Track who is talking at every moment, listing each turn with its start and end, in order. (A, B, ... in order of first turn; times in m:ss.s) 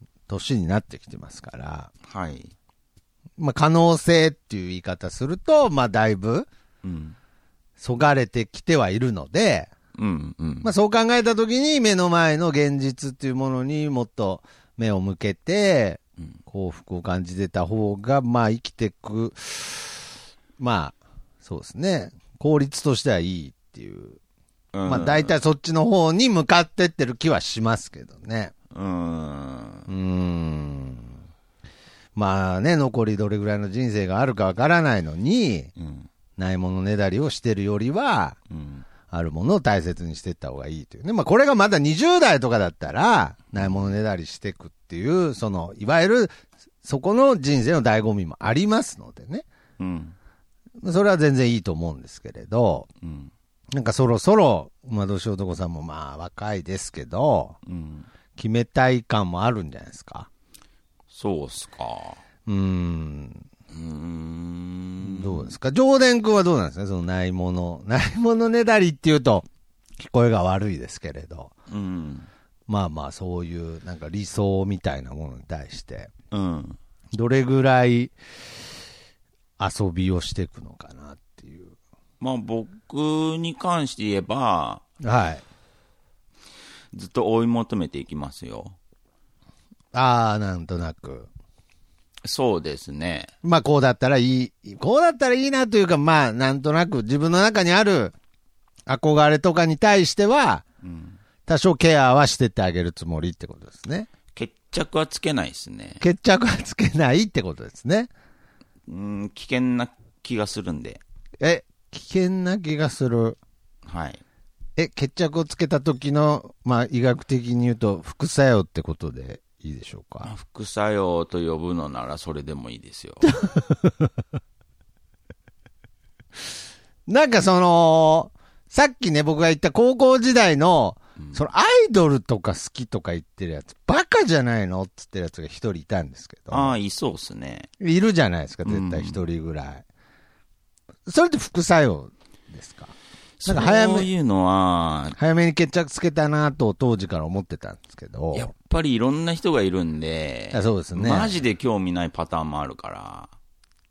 0:00.3-0:01.9 A
0:02.0-0:02.5 B
0:03.4-0:06.5 A
0:06.8-0:07.2 B
0:07.8-0:09.7 A
0:10.0-0:10.7 B
0:10.6-0:20.0 A
0:20.6-0:24.2 A
0:24.7-0:25.3 B
0:24.8-0:28.5 A
0:28.7-0:29.9 B
0:29.9-0:31.1 A
0:32.2-0:35.7 A
0:35.8-0:36.1 B
0:36.4-0:38.4 A
0:38.5-0:38.8 B
0:39.1-0:46.3 A
0:43.5-0:43.9 B
0:46.8-0:49.4 A
0:49.8-0:50.1 B
0:50.8-0:52.9 A
0:53.0-0:53.3 B
0:53.7-0:57.6 A
0:57.6-0:58.1 B
0:58.4-1:00.3 A
1:01.1-1:02.2 B
1:02.4-1:03.4 A
1:03.7-1:05.5 B
1:05.0-1:09.4 A
1:10.0-1:11.5 A
1:11.7-1:12.3 B
1:12.7-1:16.1 A
1:16.3-1:16.8 B
1:17.1-1:18.1 A
1:19.6-1:21.7 A
1:22.2-1:24.8 B
1:25.0-1:25.4 A
1:26.9-1:28.8 B
1:29.9-1:31.3 A
1:32.2-1:33.3 B
1:33.4-1:38.1 A
1:38.9-1:40.6 A
1:40.8-1:41.2 B
1:41.4-1:44.1 A
1:44.3-1:46.0 B
1:46.0-1:48.1 A
1:48.9-1:51.0 B
1:51.4-1:53.4 A
1:53.8-1:54.2 B
1:54.8-2:00.3 A
2:00.2-2:03.2 B
2:03.4-2:03.7 A
2:07.1-2:16.7 A
2:16.5-2:17.7 B
2:17.8-2:19.8 A
2:18.6-2:19.2 B
2:21.0-2:22.9 A
2:23.4-2:25.2 B
2:23.4-2:24.1 A
2:25.2-2:28.5 A
2:28.3-2:33.3 B
2:30.5-2:31.4 A